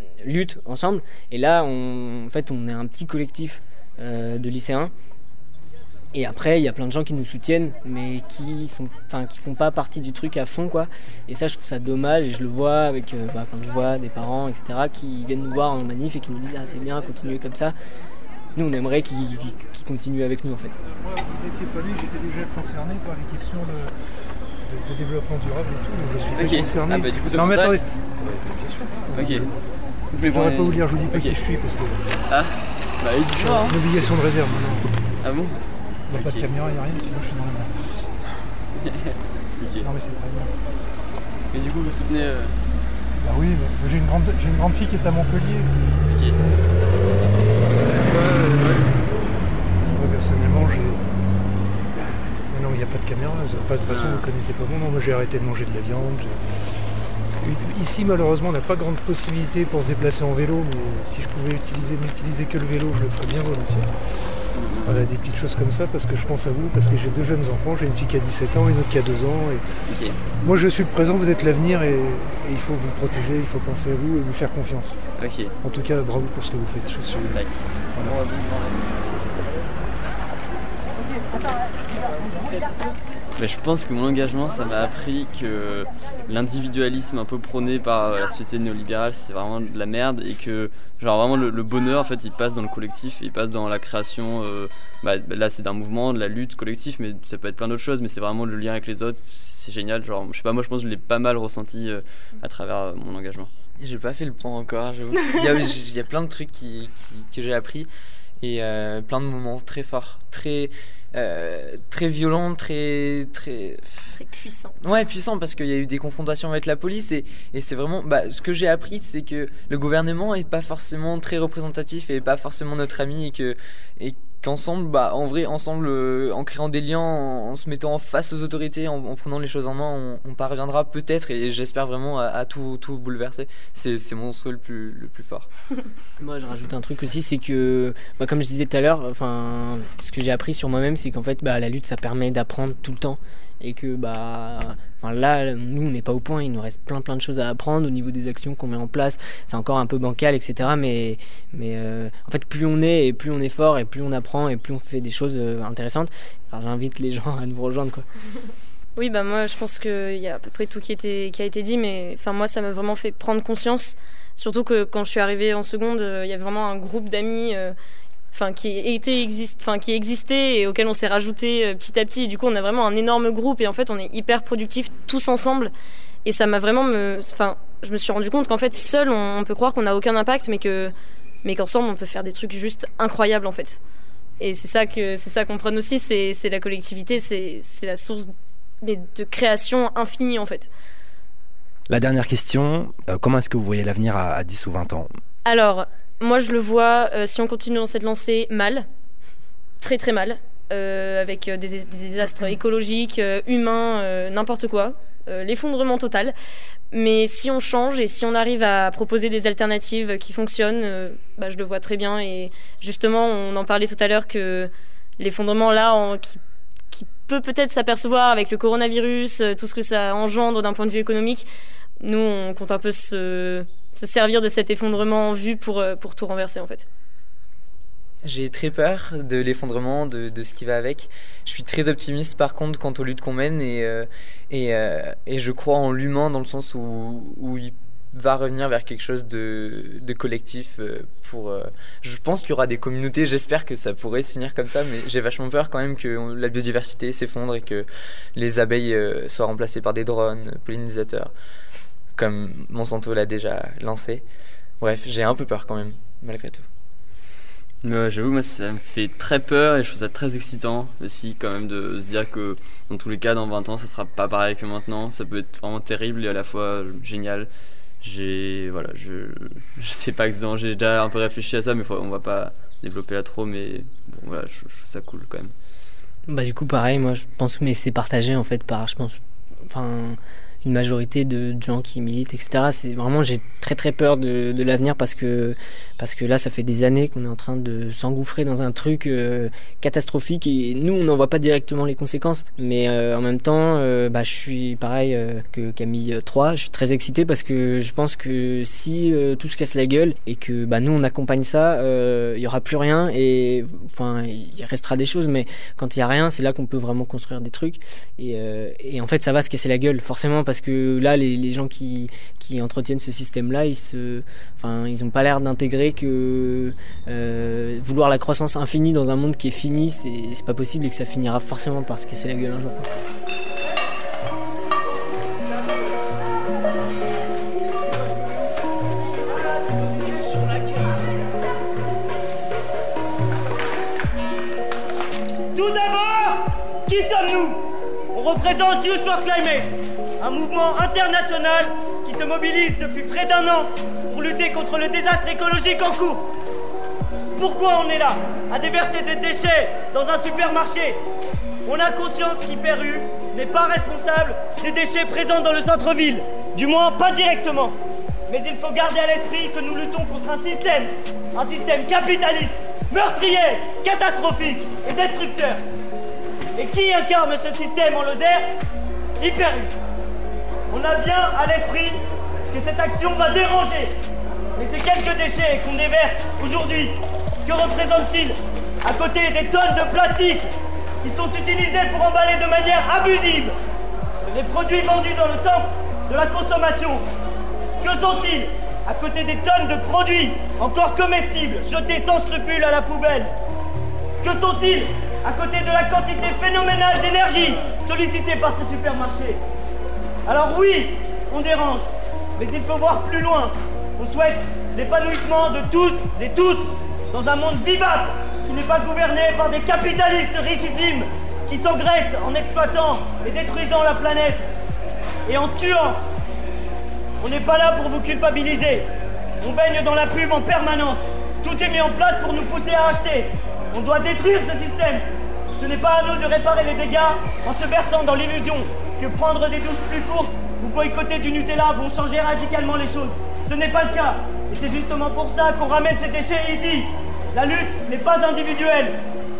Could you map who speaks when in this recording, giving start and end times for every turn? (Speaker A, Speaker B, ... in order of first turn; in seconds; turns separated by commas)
Speaker A: 0.2-4.9, Speaker A: 6.1-17.8, Speaker A: 18.6-20.8, Speaker B: 21.0-23.9, Speaker B: 24.6-29.6, Speaker C: 26.3-27.9, Speaker C: 29.1-29.5, Speaker C: 30.1-31.4, Speaker B: 30.2-32.0, Speaker C: 32.3-34.1, Speaker B: 33.4-34.9, Speaker C: 35.2-35.6, Speaker B: 36.1-38.1, Speaker C: 36.1-36.5, Speaker C: 38.8-39.9, Speaker B: 39.8-40.5, Speaker C: 41.5-42.5, Speaker B: 43.2-46.0, Speaker C: 46.0-46.4, Speaker C: 47.7-48.9, Speaker B: 49.8-51.0, Speaker B: 52.0-56.4, Speaker C: 53.9-54.3, Speaker B: 57.4-63.9, Speaker C: 64.5-65.1, Speaker B: 64.8-69.7, Speaker C: 69.9-70.2, Speaker B: 70.4-75.0, Speaker C: 75.2-75.5, Speaker B: 75.6-77.4, Speaker C: 77.3-79.3, Speaker C: 83.4-103.5, Speaker D: 103.8-107.9, Speaker D: 108.4-114.3, Speaker D: 114.8-135.5, Speaker A: 136.2-158.0, Speaker E: 159.0-167.8, Speaker E: 168.3-175.7, Speaker E: 176.2-180.9, Speaker E: 181.4-183.8, Speaker E: 184.4-190.7, Speaker F: 191.9-195.1, Speaker E: 195.4-198.9, Speaker E: 199.8-206.3, Speaker E: 206.9-221.5, Speaker E: 222.0-226.9, Speaker D: 228.2-251.3, Speaker D: 252.2-254.3, Speaker D: 254.8-256.7, Speaker C: 257.8-267.5, Speaker C: 268.0-275.5, Speaker A: 276.3-322.9, Speaker G: 335.6-337.6, Speaker G: 338.1-346.3, Speaker G: 347.4-351.0, Speaker G: 351.7-357.8, Speaker G: 358.3-365.6, Speaker G: 366.6-368.5, Speaker G: 369.2-369.7, Speaker G: 370.7-372.0, Speaker G: 372.5-373.9, Speaker G: 374.6-380.5, Speaker G: 381.0-383.6, Speaker G: 384.3-387.0, Speaker G: 387.8-393.3, Speaker G: 394.2-399.4, Speaker G: 400.3-414.4, Speaker G: 415.3-416.0, Speaker G: 417.2-418.9, Speaker G: 419.4-425.0, Speaker G: 425.6-439.0